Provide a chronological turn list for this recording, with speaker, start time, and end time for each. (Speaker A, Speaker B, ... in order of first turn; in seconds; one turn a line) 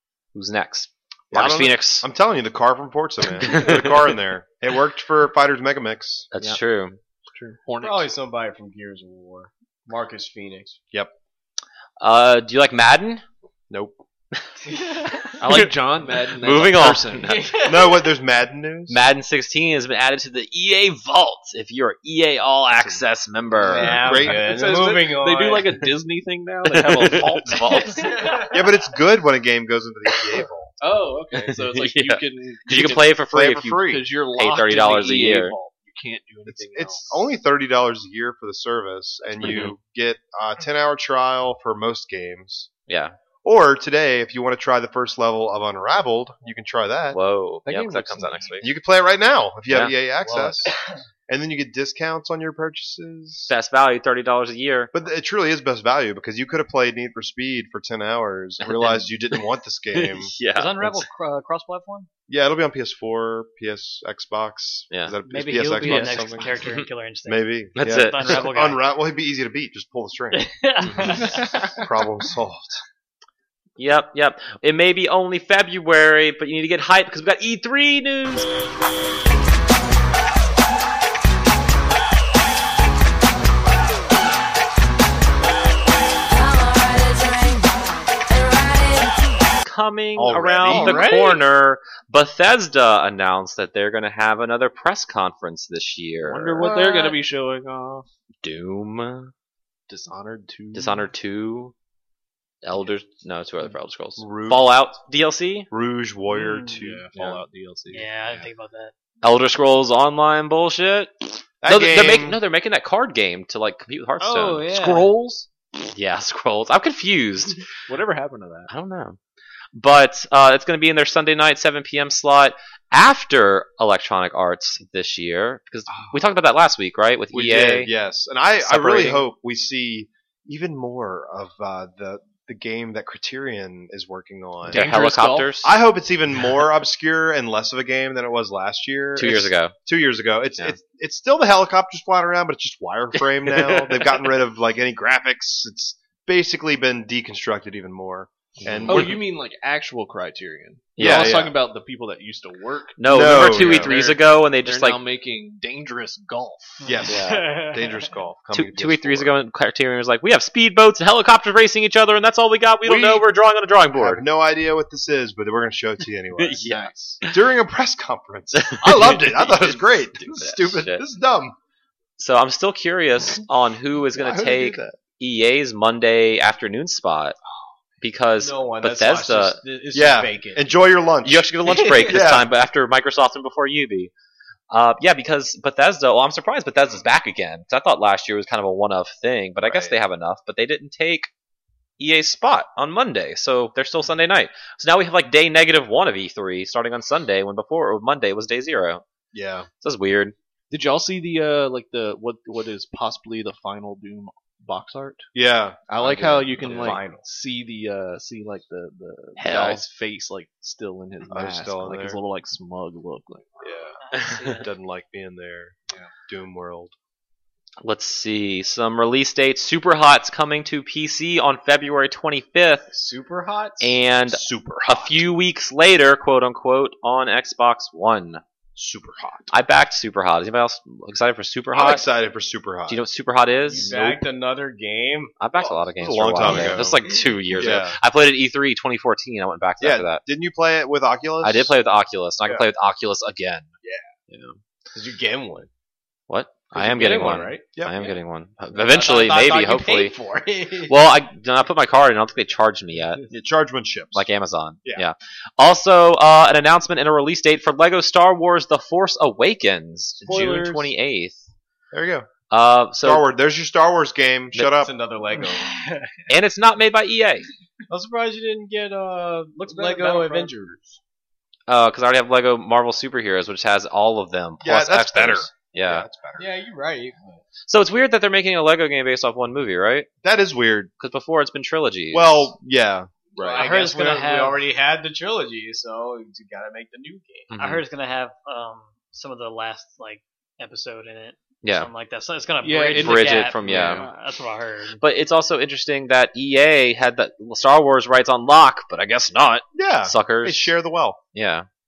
Speaker A: 0.3-2.1
Speaker B: 1.3-6.3
Speaker A: 3.4-4.1
Speaker A: 6.3-7.0
Speaker C: 7.3-8.1
Speaker D: 7.8-10.8
Speaker A: 12.0-13.2
Speaker B: 13.7-14.0
Speaker A: 15.4-15.7
Speaker C: 15.4-17.4
Speaker A: 16.4-17.4
Speaker D: 17.2-18.1
Speaker B: 17.6-19.0
Speaker A: 18.9-24.1
Speaker D: 23.6-25.8
Speaker C: 23.8-28.0
Speaker B: 23.9-24.4
Speaker A: 26.7-28.2
Speaker E: 27.7-28.5
Speaker D: 28.1-28.5
Speaker B: 28.5-30.7
Speaker C: 30.8-37.3
Speaker A: 31.4-35.6
Speaker B: 33.3-34.0
Speaker B: 36.5-42.7
Speaker A: 39.4-39.7
Speaker A: 42.9-43.1
Speaker B: 43.4-47.2
Speaker A: 47.1-48.7
Speaker C: 47.7-48.6
Speaker B: 48.6-50.7
Speaker E: 50.2-51.0
Speaker B: 51.3-53.5
Speaker A: 53.5-54.9
Speaker B: 54.9-60.4
Speaker A: 58.6-61.0
Speaker E: 60.5-62.1
Speaker B: 62.3-66.4
Speaker A: 64.9-65.2
Speaker E: 65.3-68.8
Speaker A: 65.8-66.9
Speaker C: 65.9-66.4
Speaker B: 67.3-72.8
Speaker A: 67.8-68.5
Speaker E: 70.3-71.5
Speaker C: 71.1-71.6
Speaker A: 73.8-78.5
Speaker A: 89.6-96.7
Speaker B: 90.2-91.2
Speaker D: 90.7-91.4
Speaker C: 96.2-98.1
Speaker E: 96.6-97.2
Speaker A: 98.4-99.3
Speaker C: 99.9-101.1
Speaker A: 100.7-101.7
Speaker A: 102.6-105.7
Speaker B: 104.2-104.7
Speaker B: 105.7-107.4
Speaker E: 106.3-106.8
Speaker C: 106.8-108.5
Speaker E: 107.9-108.9
Speaker A: 109.2-114.7
Speaker B: 111.6-112.4
Speaker E: 114.2-115.1
Speaker C: 114.6-115.5
Speaker A: 115.8-117.7
Speaker C: 117.9-118.7
Speaker A: 118.7-119.2
Speaker A: 119.7-127.9
Speaker B: 125.9-126.2
Speaker B: 127.3-134.9
Speaker A: 128.6-129.2
Speaker C: 134.7-135.7
Speaker A: 134.7-135.7
Speaker B: 135.6-149.2
Speaker A: 139.2-139.8
Speaker A: 143.2-144.3
Speaker A: 148.6-149.2
Speaker C: 148.9-156.9
Speaker A: 151.0-151.4
Speaker B: 151.0-151.6
Speaker A: 153.0-155.0
Speaker B: 153.1-154.0
Speaker E: 156.8-158.1
Speaker B: 156.8-159.4
Speaker A: 157.1-157.4
Speaker A: 158.5-164.2
Speaker B: 162.8-163.3
Speaker B: 164.0-166.6
Speaker A: 166.4-167.3
Speaker C: 166.7-167.2
Speaker B: 167.2-171.6
Speaker A: 168.6-171.0
Speaker A: 172.2-177.4
Speaker B: 174.1-175.0
Speaker A: 178.0-179.6
Speaker D: 178.4-180.7
Speaker B: 179.9-181.5
Speaker A: 181.2-184.1
Speaker D: 181.7-182.2
Speaker B: 182.0-182.5
Speaker A: 184.7-191.3
Speaker B: 189.6-190.0
Speaker A: 192.0-199.0
Speaker B: 199.3-199.7
Speaker A: 199.8-200.3
Speaker C: 200.7-205.3
Speaker B: 205.3-207.0
Speaker C: 205.9-213.8
Speaker D: 206.6-207.3
Speaker A: 209.4-209.8
Speaker B: 211.3-212.2
Speaker E: 214.1-214.7
Speaker A: 214.1-214.5
Speaker B: 214.5-215.8
Speaker B: 216.3-216.9
Speaker A: 217.8-222.9
Speaker D: 222.9-224.0
Speaker A: 223.8-228.4
Speaker B: 224.3-225.3
Speaker B: 228.8-229.6
Speaker A: 229.5-232.1
Speaker B: 231.7-233.0
Speaker A: 232.9-234.0
Speaker D: 233.7-235.8
Speaker B: 233.8-234.2
Speaker A: 235.4-240.2
Speaker B: 236.0-237.0
Speaker D: 236.4-237.7
Speaker B: 237.6-238.0
Speaker B: 239.8-241.7
Speaker A: 241.4-243.7
Speaker A: 244.3-244.6
Speaker D: 244.9-245.7
Speaker A: 246.3-250.2
Speaker D: 246.7-248.1
Speaker D: 248.7-251.0
Speaker A: 250.9-253.3
Speaker B: 253.3-254.3
Speaker A: 254.1-261.5
Speaker C: 260.2-260.9
Speaker B: 261.9-262.3
Speaker A: 262.5-263.2
Speaker B: 263.0-264.9
Speaker D: 264.7-265.8
Speaker A: 266.3-267.5
Speaker D: 267.9-271.0
Speaker E: 269.7-270.5
Speaker A: 271.7-276.1
Speaker B: 274.6-276.5
Speaker D: 276.4-277.4
Speaker A: 277.7-280.1
Speaker B: 280.2-280.9
Speaker A: 281.0-282.5
Speaker B: 282.1-283.7
Speaker D: 283.4-287.5
Speaker E: 283.6-284.6
Speaker A: 287.5-287.8
Speaker E: 287.6-295.0
Speaker A: 291.6-291.9
Speaker C: 292.6-294.1
Speaker A: 292.9-294.1
Speaker A: 295.0-300.7
Speaker B: 299.8-301.2
Speaker A: 301.3-301.7